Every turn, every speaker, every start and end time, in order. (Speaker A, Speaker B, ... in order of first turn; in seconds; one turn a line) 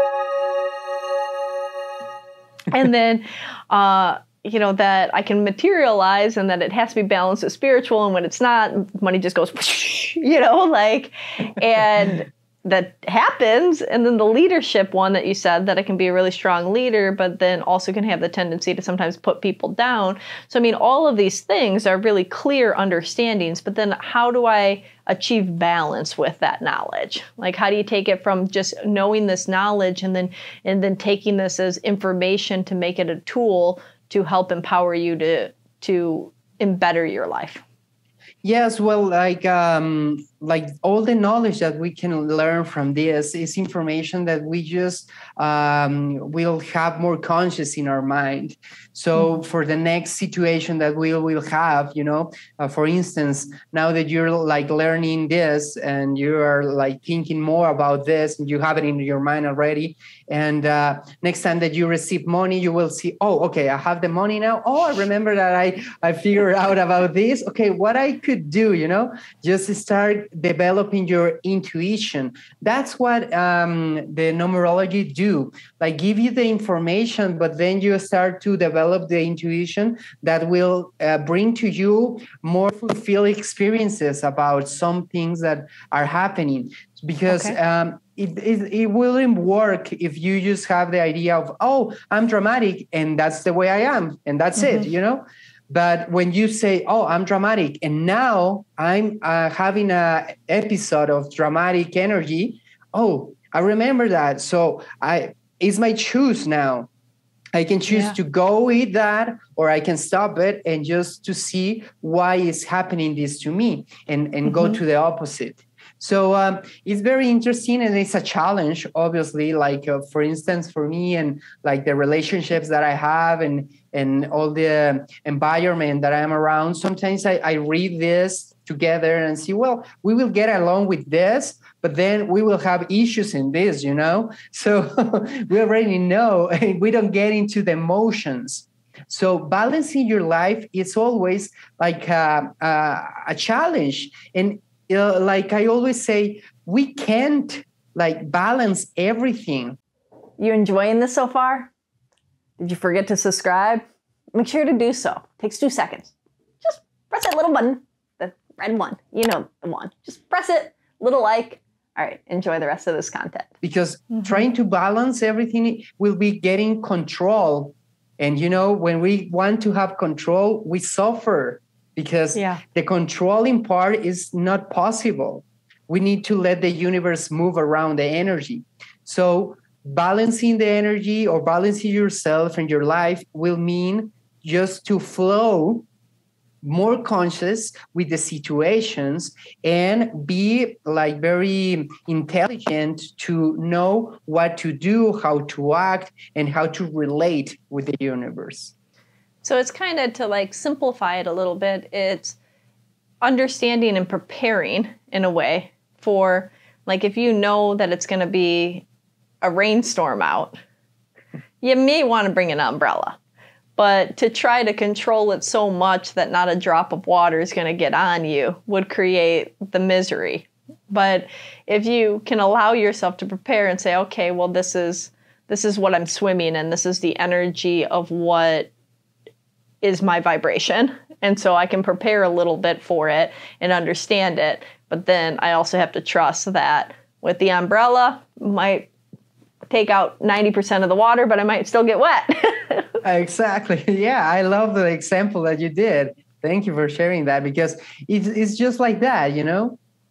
Speaker A: 2.7-37.6
Speaker B: 38.4-106.9
Speaker A: 87.3-87.6
Speaker B: 107.5-149.8
Speaker A: 150.4-151.7
Speaker A: 152.6-163.5
Speaker B: 163.6-185.9
Speaker A: 164.1-164.4
Speaker A: 172.3-172.6
Speaker B: 186.6-198.7
Speaker A: 199.4-202.4
Speaker A: 203.2-208.8
Speaker A: 209.4-210.6
Speaker A: 211.6-213.2
Speaker A: 213.8-228.7
Speaker A: 229.8-238.9
Speaker A: 239.7-242.9
Speaker B: 243.0-249.8